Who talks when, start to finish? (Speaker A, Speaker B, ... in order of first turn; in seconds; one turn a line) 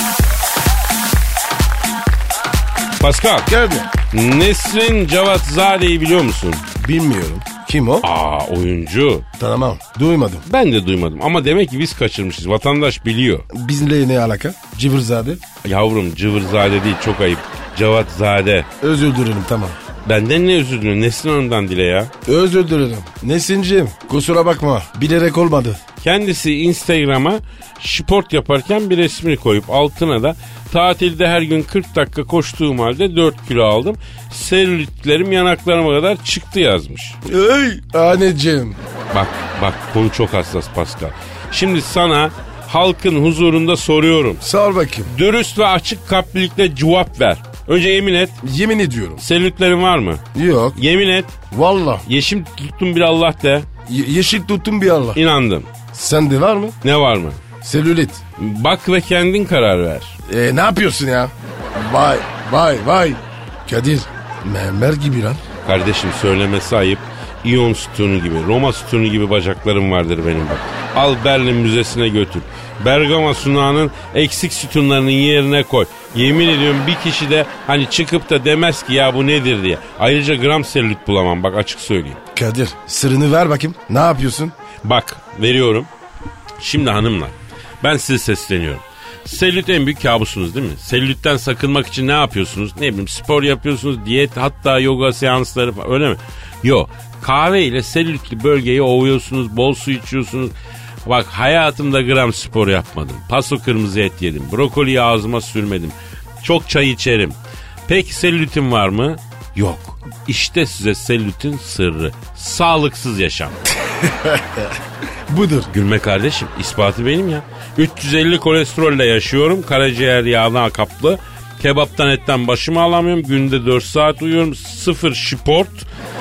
Speaker A: 3.0-3.5
Speaker B: 3.5-3.9
Speaker A: 4.1-6.6
Speaker B: 6.8-8.1
Speaker A: 8.0-9.2
Speaker B: 9.4-10.4
Speaker A: 10.4-13.5
Speaker B: 13.5-15.4
Speaker A: 15.6-18.7
Speaker B: 18.8-19.8
Speaker A: 20.1-22.1
Speaker B: 22.2-25.8
Speaker A: 26.0-37.1
Speaker B: 37.2-38.8
Speaker A: 39.1-44.4
Speaker B: 44.4-45.1
Speaker A: 45.1-48.4
Speaker B: 48.4-49.2
Speaker A: 49.2-50.2
Speaker B: 50.4-50.8
Speaker A: 50.7-51.4
Speaker B: 51.5-52.0
Speaker A: 52.1-53.7
Speaker B: 53.9-55.2
Speaker A: 55.1-55.7
Speaker B: 55.9-56.8
Speaker A: 56.8-57.4
Speaker B: 57.6-58.2
Speaker A: 58.4-60.1
Speaker B: 60.3-65.4
Speaker A: 65.6-82.2
Speaker B: 82.3-84.5
Speaker A: 84.8-85.9
Speaker A: 86.6-100.5
Speaker A: 101.0-107.4
Speaker A: 107.9-113.6
Speaker B: 113.9-114.8
Speaker B: 115.3-115.7
Speaker A: 115.7-125.8